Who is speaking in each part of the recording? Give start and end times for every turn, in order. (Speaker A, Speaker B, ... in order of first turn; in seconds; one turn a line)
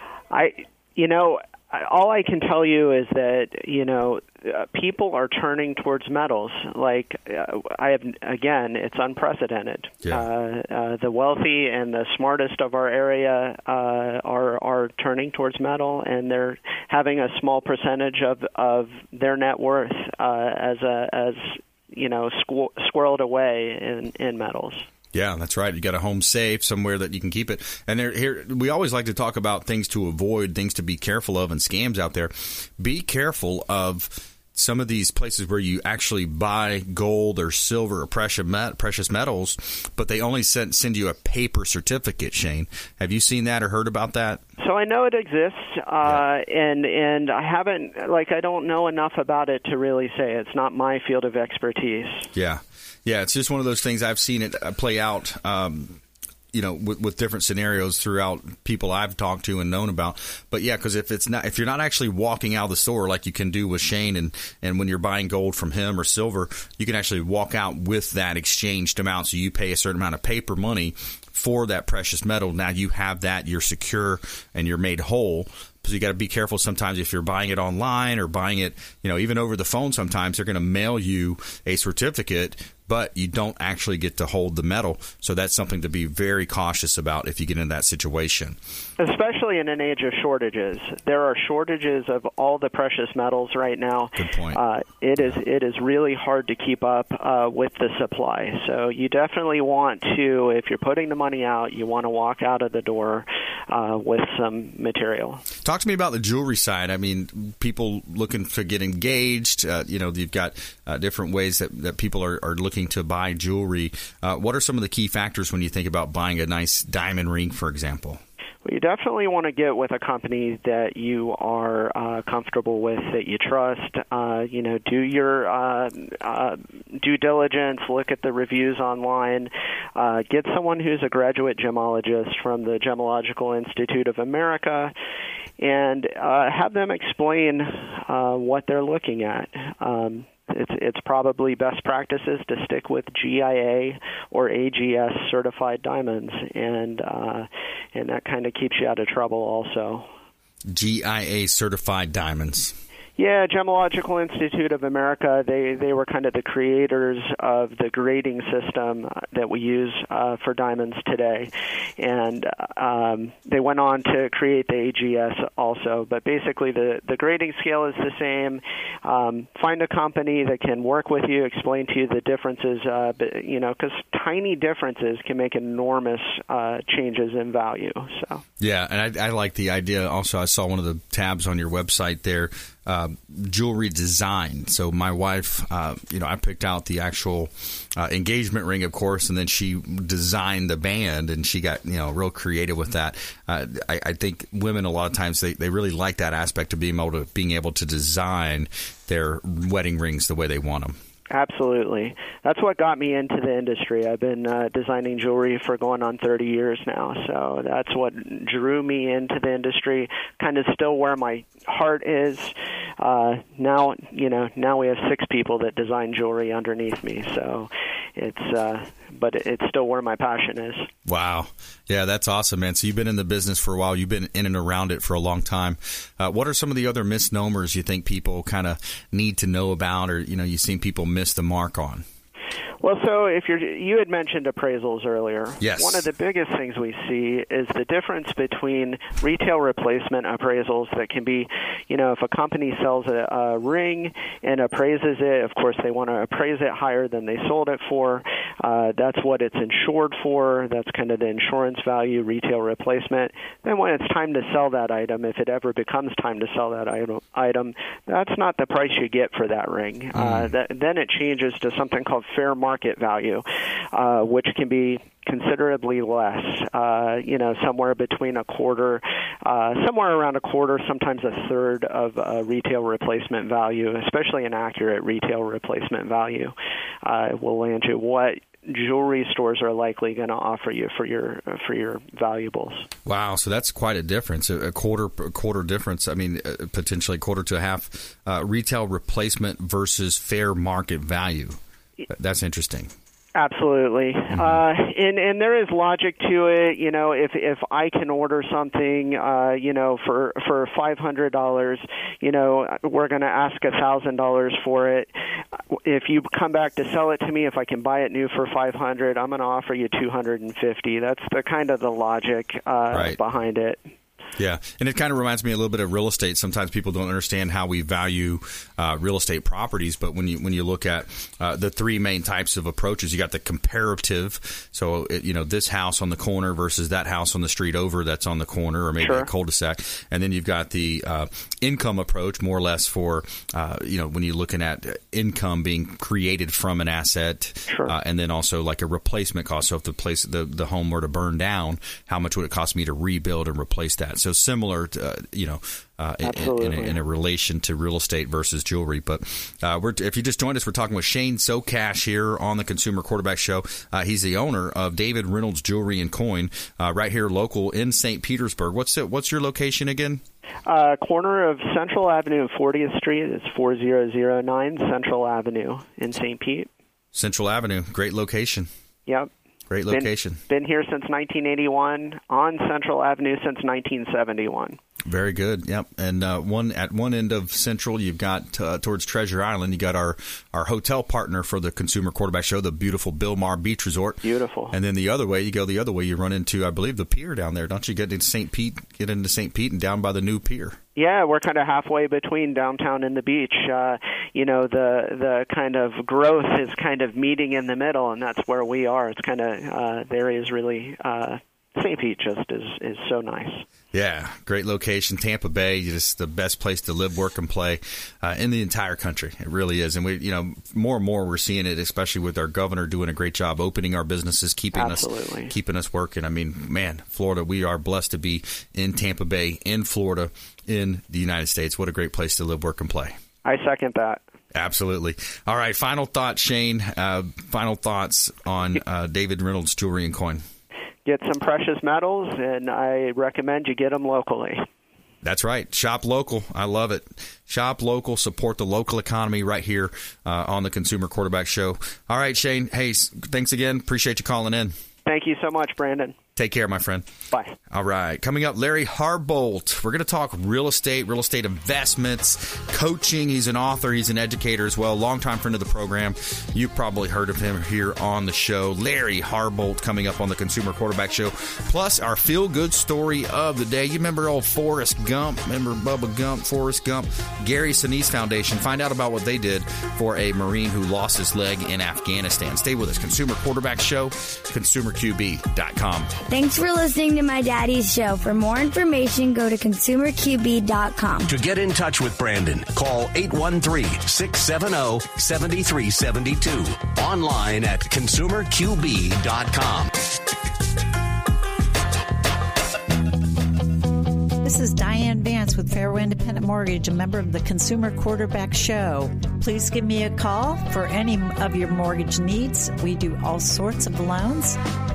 Speaker A: 0.3-24.9
Speaker B: 25.1-44.4
Speaker A: 44.6-52.3
Speaker B: 52.4-56.0
Speaker B: 56.5-88.6
Speaker A: 89.0-105.4
Speaker B: 94.2-94.6
Speaker B: 105.6-118.2
Speaker A: 118.7-134.9
Speaker A: 135.6-150.1
Speaker B: 150.7-152.8
Speaker A: 153.2-178.4
Speaker B: 178.6-201.0
Speaker A: 201.3-220.9
Speaker B: 221.1-232.1
Speaker A: 232.8-282.9
Speaker B: 235.6-236.1
Speaker B: 260.1-260.6
Speaker B: 283.1-292.9
Speaker A: 293.4-313.8
Speaker B: 294.3-294.6
Speaker B: 312.9-313.2
Speaker B: 314.4-360.2
Speaker A: 329.0-329.3
Speaker A: 337.7-337.9
Speaker A: 346.2-347.0
Speaker A: 360.7-366.7
Speaker B: 367.1-368.7
Speaker B: 369.7-370.4
Speaker A: 369.9-374.8
Speaker B: 375.1-390.8
Speaker A: 384.2-384.8
Speaker A: 391.0-403.6
Speaker B: 403.9-423.2
Speaker A: 414.8-415.5
Speaker A: 423.4-424.2
Speaker B: 424.5-430.4
Speaker A: 431.1-434.6
Speaker B: 435.2-444.8
Speaker A: 445.1-446.2
Speaker B: 446.4-447.1
Speaker A: 447.3-447.6
Speaker B: 447.7-476.1
Speaker C: 476.3-481.3
Speaker D: 481.2-489.9
Speaker E: 494.4-504.6